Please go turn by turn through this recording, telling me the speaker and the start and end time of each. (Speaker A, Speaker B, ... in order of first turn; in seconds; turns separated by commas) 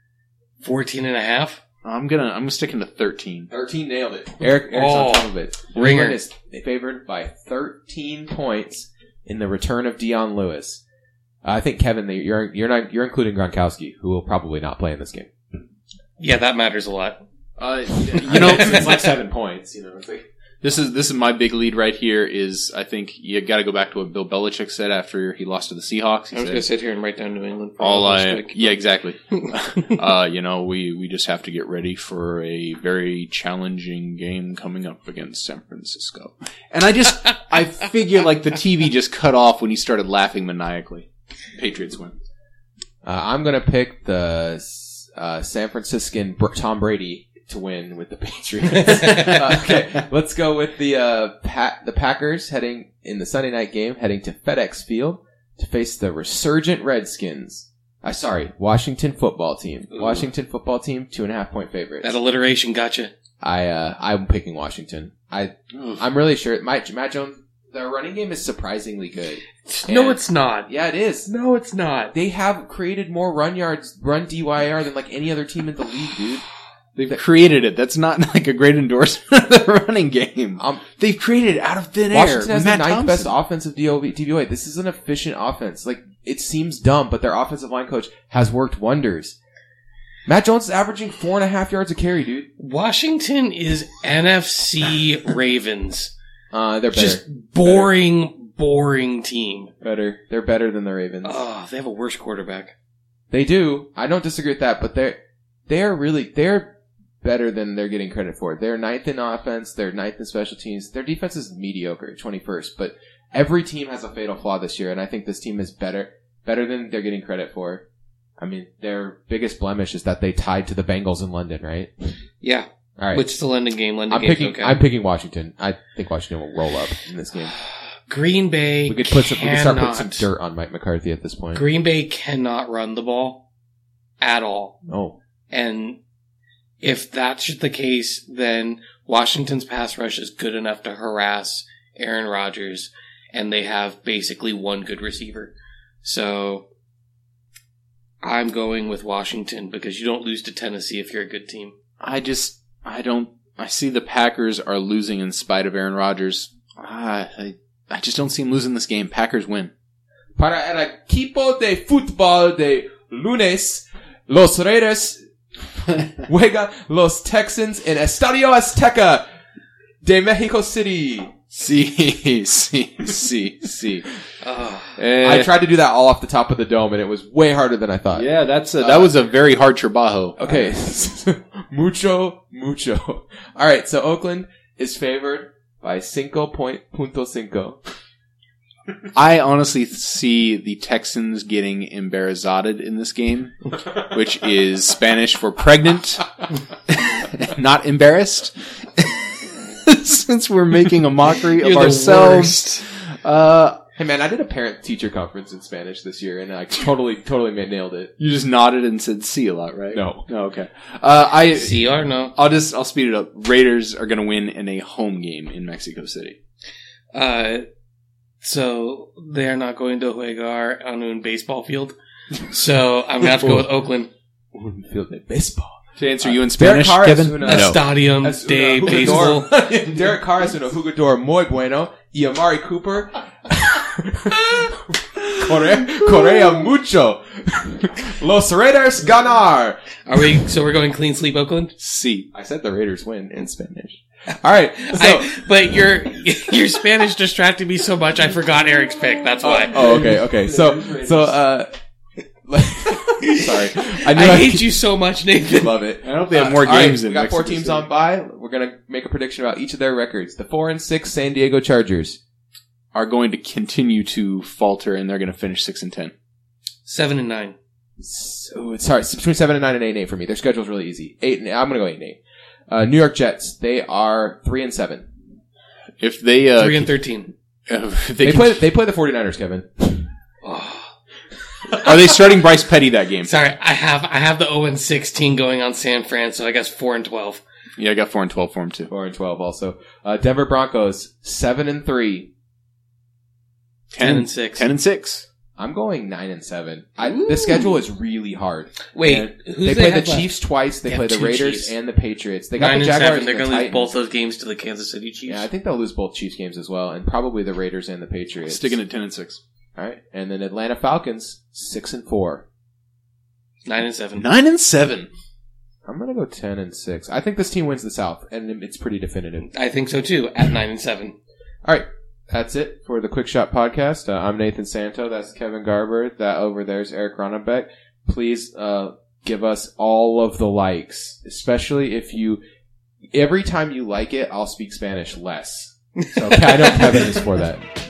Speaker A: 0.6-1.6, Speaker B: 1.8-3.5, Speaker C: 3.5-10.8, Speaker A: 4.7-6.2, Speaker C: 11.4-15.3, Speaker A: 16.2-17.2, Speaker B: 17.6-19.0, Speaker C: 17.9-20.2, Speaker B: 20.6-26.7, Speaker A: 26.3-29.9, Speaker B: 27.8-42.1, Speaker C: 43.0-62.1, Speaker B: 49.1-49.4, Speaker A: 62.0-63.1, Speaker C: 63.4-71.3, Speaker A: 69.7-70.7, Speaker A: 71.3-72.1, Speaker C: 72.1-76.5, Speaker B: 77.0-83.3, Speaker C: 80.6-80.9, Speaker C: 82.1-89.4, Speaker C: 90.3-92.5, Speaker A: 92.6-96.1, Speaker C: 96.5-97.9, Speaker A: 96.9-99.7, Speaker C: 99.8-101.4, Speaker A: 101.2-102.7, Speaker C: 103.3-105.2, Speaker C: 105.7-117.8, Speaker C: 118.4-122.1, Speaker A: 122.4-124.8, Speaker C: 123.0-123.2, Speaker C: 124.1-127.5, Speaker A: 128.1-130.3, Speaker C: 128.9-131.6, Speaker A: 131.5-133.4, Speaker A: 134.2-134.8, Speaker C: 134.9-135.2, Speaker A: 135.5-136.0, Speaker A: 136.8-146.7, Speaker A: 148.2-151.8, Speaker B: 152.0-159.7, Speaker C: 160.4-165.2, Speaker C: 166.2-169.3, Speaker C: 170.0-171.3, Speaker B: 171.5-174.1, Speaker A: 174.4-175.0, Speaker B: 175.0-175.5, Speaker C: 175.2-179.1, Speaker B: 178.1-180.7, Speaker C: 180.4-187.8, Speaker B: 189.2-199.2, Speaker B: 199.9-203.8, Speaker A: 201.6-202.8, Speaker C: 204.0-208.1, Speaker B: 208.2-216.4, Speaker C: 209.9-210.3, Speaker A: 211.5-212.3, Speaker A: 217.1-217.7, Speaker A: 218.4-221.9, Speaker A: 222.5-224.1, Speaker C: 224.5-240.3, Speaker B: 226.0-227.8, Speaker A: 227.4-229.5, Speaker B: 228.8-229.3, Speaker A: 240.1-241.7, Speaker B: 241.8-242.3, Speaker C: 242.3-245.4, Speaker A: 244.8-249.8, Speaker C: 249.4-251.7, Speaker B: 249.7-251.3, Speaker C: 252.5-254.7, Speaker A: 253.2-255.8, Speaker C: 255.4-262.2, Speaker B: 256.0-257.9, Speaker B: 262.9-266.1, Speaker A: 266.9-267.6, Speaker C: 268.0-272.2, Speaker C: 272.7-275.1, Speaker B: 276.0-277.0, Speaker A: 276.6-277.3, Speaker B: 277.7-278.6, Speaker C: 278.2-280.1, Speaker A: 280.4-280.9, Speaker B: 281.8-283.3, Speaker A: 283.2-287.4, Speaker B: 287.8-288.9, Speaker C: 288.9-292.3, Speaker B: 293.9-295.2, Speaker A: 294.0-294.7, Speaker C: 295.6-303.9, Speaker B: 297.0-297.4, Speaker A: 298.9-301.8, Speaker A: 302.6-305.5, Speaker C: 305.3-308.8, Speaker B: 308.4-309.4, Speaker C: 309.8-312.4, Speaker A: 313.7-314.3, Speaker B: 314.2-315.1, Speaker C: 315.9-319.5, Speaker A: 319.5-321.1, Speaker C: 321.6-332.4, Speaker C: 333.1-337.6, Speaker A: 336.7-337.1